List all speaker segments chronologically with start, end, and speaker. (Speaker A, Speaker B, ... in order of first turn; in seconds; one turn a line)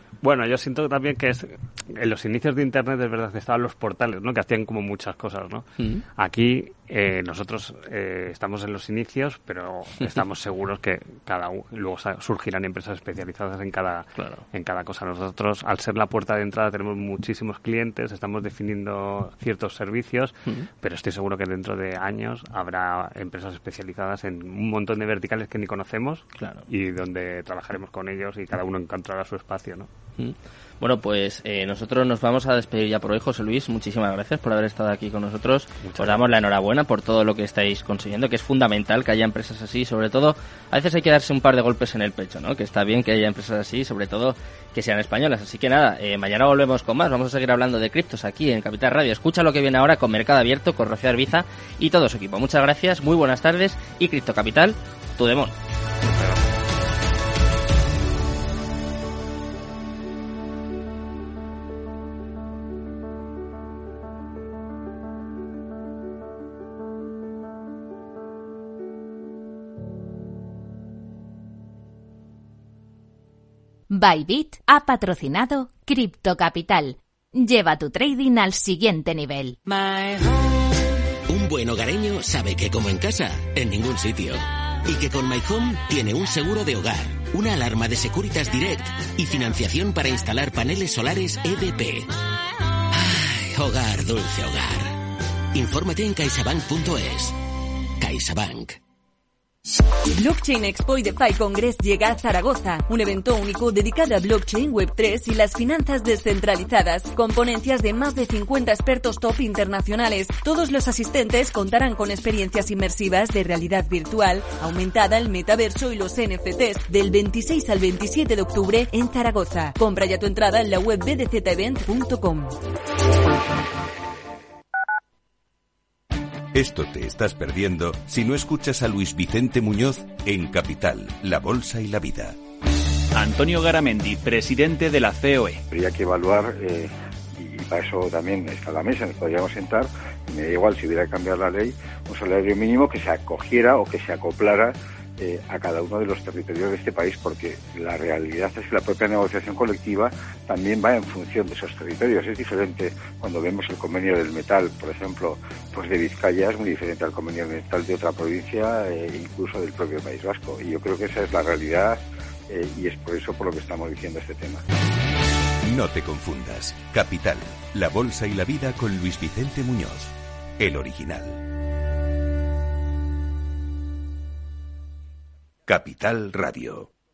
Speaker A: 0.2-29.9
Speaker B: 5.8-6.0
Speaker B: 14.2-14.4
Speaker B: 26.4-26.7
Speaker B: 30.2-55.6
Speaker A: 35.8-36.2
Speaker C: 73.9-79.6
Speaker D: 79.7-80.5
Speaker D: 81.3-92.1
Speaker D: 92.9-95.0
Speaker D: 95.5-97.4
Speaker D: 98.0-98.8
Speaker E: 100.2-122.6
Speaker F: 126.5-132.4
Speaker G: 133.1-135.6
Speaker H: 135.7-164.6
Speaker F: 165.6-171.4
Speaker F: 175.7-176.9